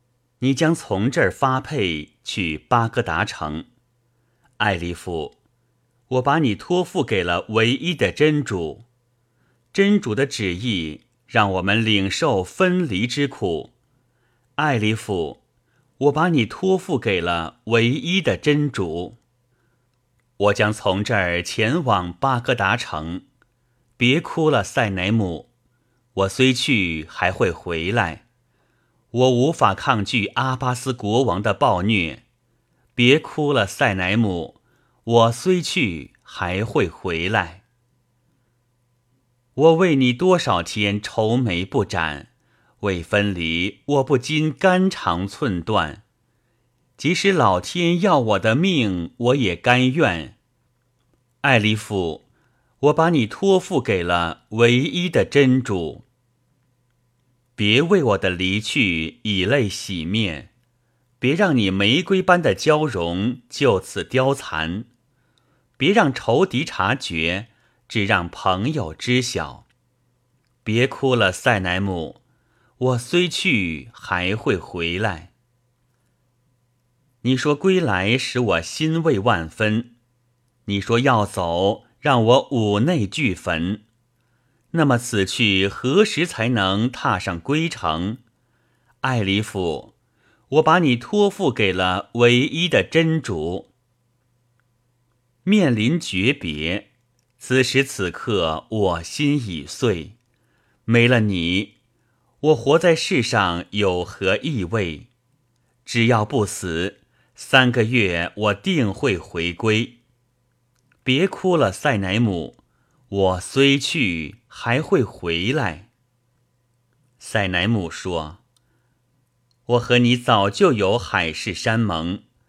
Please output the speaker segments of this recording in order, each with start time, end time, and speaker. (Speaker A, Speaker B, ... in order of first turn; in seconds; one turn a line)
Speaker A: 0.4-3.7
Speaker A: 4.6-5.4
Speaker A: 6.1-8.8
Speaker A: 9.7-13.7
Speaker A: 14.6-15.4
Speaker A: 16.0-19.2
Speaker A: 20.4-23.2
Speaker A: 24.0-25.5
Speaker A: 26.1-28.2
Speaker A: 29.1-32.2
Speaker A: 33.0-37.6
Speaker A: 39.5-42.3
Speaker A: 42.8-46.0
Speaker A: 47.0-50.4
Speaker A: 51.4-52.2
Speaker A: 52.8-56.0
Speaker A: 57.6-60.5
Speaker A: 61.2-64.9
Speaker A: 65.8-69.7
Speaker A: 70.6-72.2
Speaker A: 72.8-75.3
Speaker A: 77.2-79.9
Speaker A: 80.7-83.8
Speaker A: 84.7-88.2
Speaker A: 89.0-89.9
Speaker A: 90.5-93.7
Speaker A: 95.4-100.2
Speaker A: 100.8-101.7
Speaker A: 102.4-105.1
Speaker A: 105.8-110.0
Speaker A: 111.0-112.6
Speaker A: 113.1-115.9
Speaker A: 117.2-118.4
Speaker A: 119.7-122.2